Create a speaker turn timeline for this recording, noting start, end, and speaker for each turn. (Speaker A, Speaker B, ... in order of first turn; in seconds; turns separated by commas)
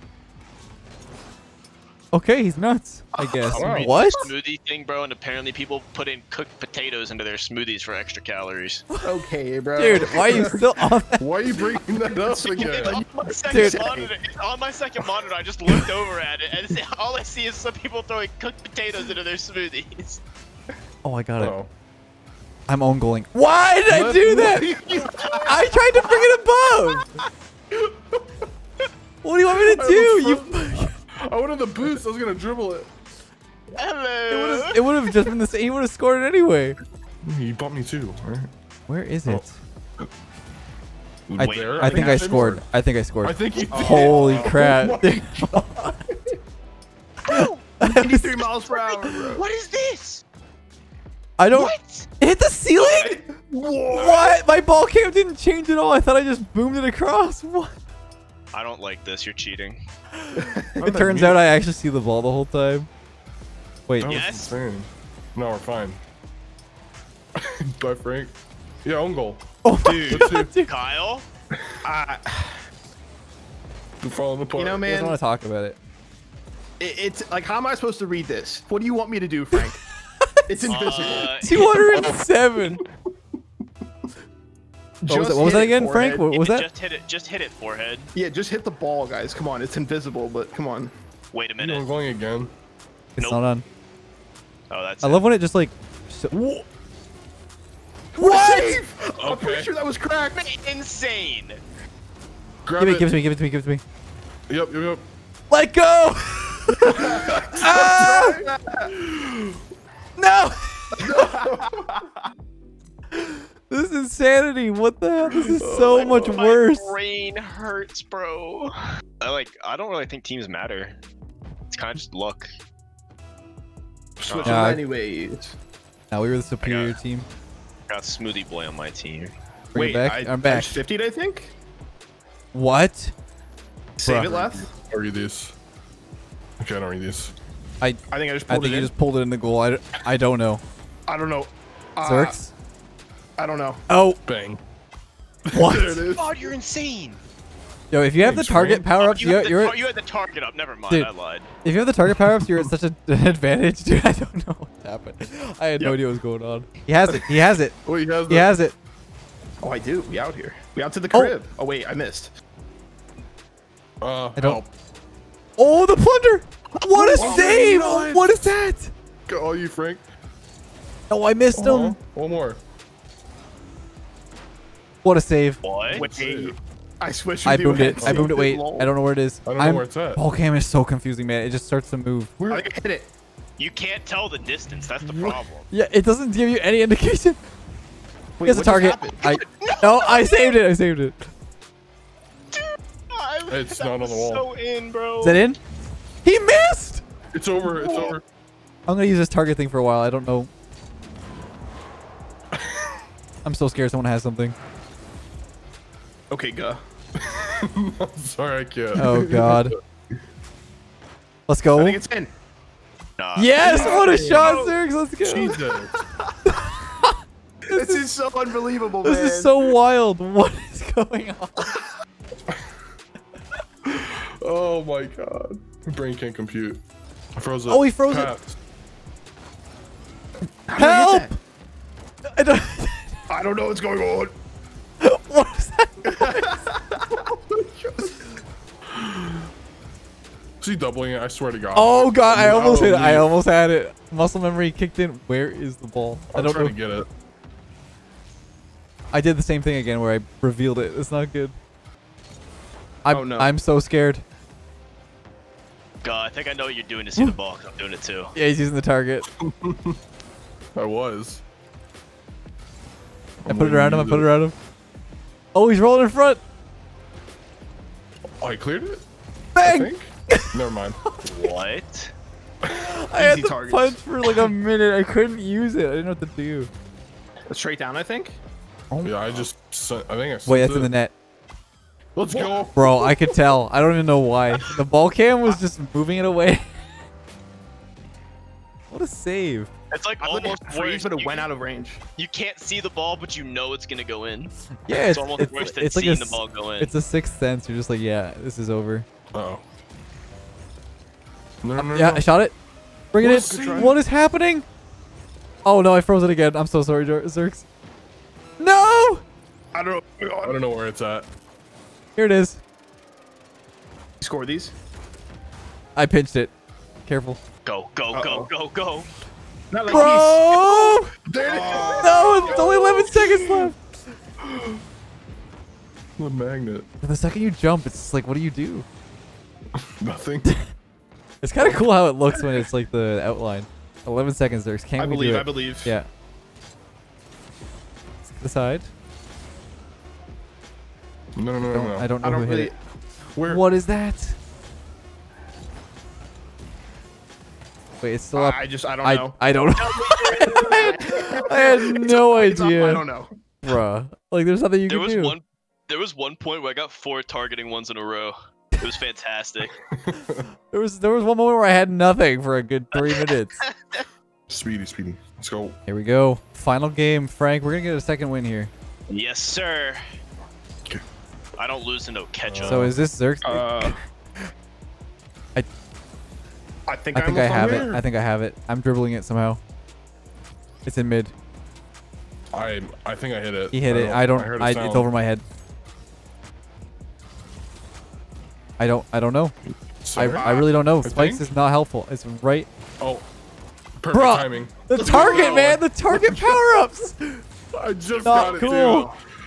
Speaker A: 2.1-4.3, Speaker B: 3.2-3.6, Speaker C: 3.5-8.8, Speaker D: 3.6-3.9, Speaker B: 9.0-10.7, Speaker A: 9.8-11.3, Speaker D: 11.2-13.0, Speaker B: 11.9-14.1, Speaker C: 12.5-20.2, Speaker A: 13.5-13.8, Speaker A: 21.0-21.5, Speaker D: 21.4-21.7, Speaker A: 22.7-24.7, Speaker D: 23.9-25.4, Speaker C: 24.9-26.0, Speaker A: 25.4-27.1, Speaker A: 29.2-30.9, Speaker D: 29.5-32.9, Speaker C: 33.7-34.8, Speaker A: 34.3-36.8, Speaker D: 37.2-38.5, Speaker A: 38.9-39.6, Speaker C: 41.3-42.2, Speaker D: 41.4-42.6, Speaker A: 41.4-46.0, Speaker B: 42.1-42.5, Speaker D: 43.2-45.7, Speaker B: 43.7-44.8, Speaker C: 47.2-47.7, Speaker A: 47.3-48.4, Speaker B: 47.8-49.4, Speaker C: 48.7-50.2, Speaker A: 51.4-53.2, Speaker C: 51.5-52.1, Speaker C: 52.8-53.2, Speaker B: 53.3-54.3, Speaker A: 53.9-57.7, Speaker D: 54.0-54.3, Speaker C: 58.5-59.8, Speaker A: 60.2-62.9, Speaker B: 60.4-61.3, Speaker D: 61.1-61.4, Speaker A: 63.9-64.2, Speaker D: 64.0-66.0, Speaker C: 64.1-64.5, Speaker D: 67.4-69.5, Speaker A: 69.6-70.7, Speaker B: 69.8-70.3, Speaker D: 70.0-70.5, Speaker C: 70.6-71.3, Speaker B: 71.8-72.6, Speaker D: 74.0-74.8, Speaker B: 74.6-75.2, Speaker A: 74.8-75.8, Speaker B: 76.8-79.8, Speaker A: 80.2-82.8, Speaker B: 80.5-81.4, Speaker C: 80.7-82.1, Speaker B: 85.0-86.3, Speaker A: 85.1-86.7, Speaker C: 86.3-88.1, Speaker B: 88.1-90.9, Speaker C: 91.3-91.9, Speaker D: 91.6-92.5, Speaker A: 93.2-93.6, Speaker C: 94.7-95.2, Speaker A: 95.0-96.3, Speaker D: 96.3-96.6, Speaker B: 98.1-100.5, Speaker A: 98.2-98.8, Speaker D: 99.2-99.7, Speaker C: 100.4-101.6, Speaker D: 102.6-103.1, Speaker A: 102.8-103.8, Speaker D: 104.5-105.0, Speaker A: 105.5-108.4, Speaker B: 106.9-109.0, Speaker D: 107.1-108.4, Speaker D: 109.0-109.6, Speaker A: 110.2-111.1, Speaker B: 111.0-112.0, Speaker D: 111.1-111.7, Speaker A: 113.1-117.0, Speaker D: 115.3-116.2, Speaker C: 115.9-121.0, Speaker B: 116.0-116.4, Speaker C: 121.7-122.5, Speaker B: 124.2-125.5, Speaker C: 124.3-124.6, Speaker A: 124.4-124.8, Speaker A: 126.1-127.2, Speaker C: 126.6-127.0, Speaker C: 127.9-129.3, Speaker A: 129.7-130.8, Speaker B: 129.8-131.5, Speaker A: 132.5-133.1, Speaker B: 134.0-134.7, Speaker A: 134.0-134.5, Speaker D: 134.8-135.5, Speaker D: 136.6-137.3, Speaker A: 137.8-140.6, Speaker B: 138.1-138.9, Speaker B: 141.1-142.4, Speaker A: 142.0-142.5, Speaker B: 143.4-143.8, Speaker A: 143.9-144.2, Speaker D: 144.2-144.6, Speaker D: 145.5-146.5, Speaker A: 145.5-146.0, Speaker C: 146.1-147.2, Speaker A: 147.9-149.8, Speaker D: 148.2-149.5, Speaker C: 149.0-151.5, Speaker A: 151.6-158.8, Speaker D: 152.1-152.7, Speaker D: 157.8-158.5, Speaker B: 159.6-162.3, Speaker D: 164.0-164.7, Speaker A: 164.4-164.6, Speaker A: 165.6-168.9, Speaker B: 166.9-167.5, Speaker D: 167.1-168.6, Speaker D: 169.3-170.0, Speaker A: 171.1-172.0, Speaker D: 171.5-172.6, Speaker A: 175.0-175.6, Speaker C: 175.6-176.0, Speaker D: 175.9-176.6, Speaker B: 175.9-178.9, Speaker A: 177.4-182.3, Speaker D: 177.7-178.4, Speaker D: 179.4-180.2, Speaker D: 182.4-182.7, Speaker B: 182.5-183.1, Speaker C: 183.6-185.7, Speaker B: 185.1-185.4, Speaker A: 185.7-187.4, Speaker B: 188.4-189.2, Speaker A: 188.4-191.2, Speaker C: 188.8-190.6, Speaker C: 192.5-195.4, Speaker D: 193.5-194.5, Speaker A: 195.2-195.6, Speaker A: 196.2-197.0, Speaker D: 197.3-198.2, Speaker B: 197.6-198.1, Speaker A: 198.9-200.5, Speaker D: 202.6-202.9, Speaker A: 203.4-204.6, Speaker B: 206.3-206.8, Speaker D: 207.3-209.8, Speaker A: 209.0-209.8, Speaker B: 209.0-209.4, Speaker A: 211.5-212.0, Speaker B: 211.8-212.3, Speaker C: 213.2-214.7, Speaker A: 213.4-215.6, Speaker B: 213.6-214.7, Speaker D: 215.2-215.9, Speaker B: 215.4-215.8, Speaker A: 216.5-217.2, Speaker A: 217.7-218.0, Speaker B: 217.7-219.7, Speaker A: 219.0-221.7, Speaker D: 223.8-226.8, Speaker D: 227.4-228.6, Speaker A: 227.7-228.3, Speaker B: 230.7-231.3, Speaker A: 230.8-231.4, Speaker A: 232.2-233.2, Speaker B: 233.3-234.3, Speaker A: 235.0-236.6, Speaker B: 236.1-238.1, Speaker D: 238.9-239.5, Speaker D: 240.6-243.3, Speaker A: 241.7-246.8, Speaker D: 246.3-247.1, Speaker A: 249.1-251.6, Speaker A: 253.0-254.2, Speaker B: 253.1-253.5, Speaker C: 256.0-258.3, Speaker A: 258.4-259.2, Speaker D: 259.4-260.0, Speaker D: 260.8-261.4, Speaker D: 263.4-264.3, Speaker A: 263.4-264.5, Speaker A: 265.5-266.4, Speaker D: 268.4-269.0, Speaker A: 269.5-271.5, Speaker D: 269.6-271.0, Speaker C: 271.2-272.1, Speaker A: 272.7-276.7, Speaker B: 273.1-274.0, Speaker B: 277.5-278.4, Speaker A: 278.9-279.5, Speaker D: 279.0-280.9, Speaker A: 280.5-281.1, Speaker D: 282.1-283.4, Speaker A: 282.8-286.8, Speaker A: 288.9-289.7, Speaker C: 289.9-291.5, Speaker B: 290.2-292.0, Speaker C: 292.2-296.9, Speaker A: 294.9-299.1, Speaker D: 299.3-299.6, Speaker D: 301.6-302.3, Speaker A: 301.8-302.5, Speaker A: 303.1-304.6, Speaker D: 303.2-304.0, Speaker B: 303.2-303.9, Speaker A: 305.6-307.6, Speaker A: 308.6-309.2, Speaker B: 309.7-310.6, Speaker D: 310.4-311.3, Speaker A: 312.1-312.6, Speaker B: 314.2-314.7, Speaker A: 316.0-316.5, Speaker A: 317.0-317.4, Speaker C: 317.6-319.1, Speaker B: 318.1-318.5, Speaker B: 319.7-320.9, Speaker A: 319.9-321.1, Speaker D: 321.3-323.7, Speaker B: 321.4-322.7, Speaker A: 322.0-323.8, Speaker D: 324.4-324.8, Speaker D: 326.2-326.9, Speaker A: 327.0-328.9, Speaker D: 329.8-330.6, Speaker A: 331.4-336.1, Speaker D: 331.6-332.6, Speaker B: 335.0-335.9, Speaker A: 338.2-338.9, Speaker D: 341.4-342.1, Speaker A: 341.7-342.7, Speaker B: 342.2-342.7, Speaker D: 343.3-343.6, Speaker A: 343.4-344.4, Speaker A: 348.0-353.0, Speaker B: 348.4-349.4, Speaker C: 349.8-351.0, Speaker B: 350.4-353.3, Speaker A: 353.6-355.4, Speaker C: 354.9-359.7, Speaker D: 359.9-360.4, Speaker A: 360.7-363.6, Speaker C: 362.9-364.0, Speaker D: 364.5-365.8, Speaker A: 365.9-368.7, Speaker C: 369.1-370.0, Speaker C: 371.6-372.9, Speaker D: 372.4-373.0, Speaker A: 372.6-374.0, Speaker B: 373.4-374.0, Speaker B: 376.9-377.9, Speaker A: 377.1-379.6, Speaker D: 377.5-378.0, Speaker A: 380.9-381.3, Speaker D: 382.5-385.1, Speaker A: 383.7-385.4, Speaker A: 388.8-389.5, Speaker D: 390.0-391.5, Speaker A: 390.1-392.7, Speaker B: 390.4-390.7, Speaker D: 393.0-393.3, Speaker D: 394.0-396.2, Speaker A: 394.1-397.4, Speaker B: 394.9-395.8, Speaker D: 397.7-399.1, Speaker C: 398.1-398.9, Speaker A: 398.2-399.1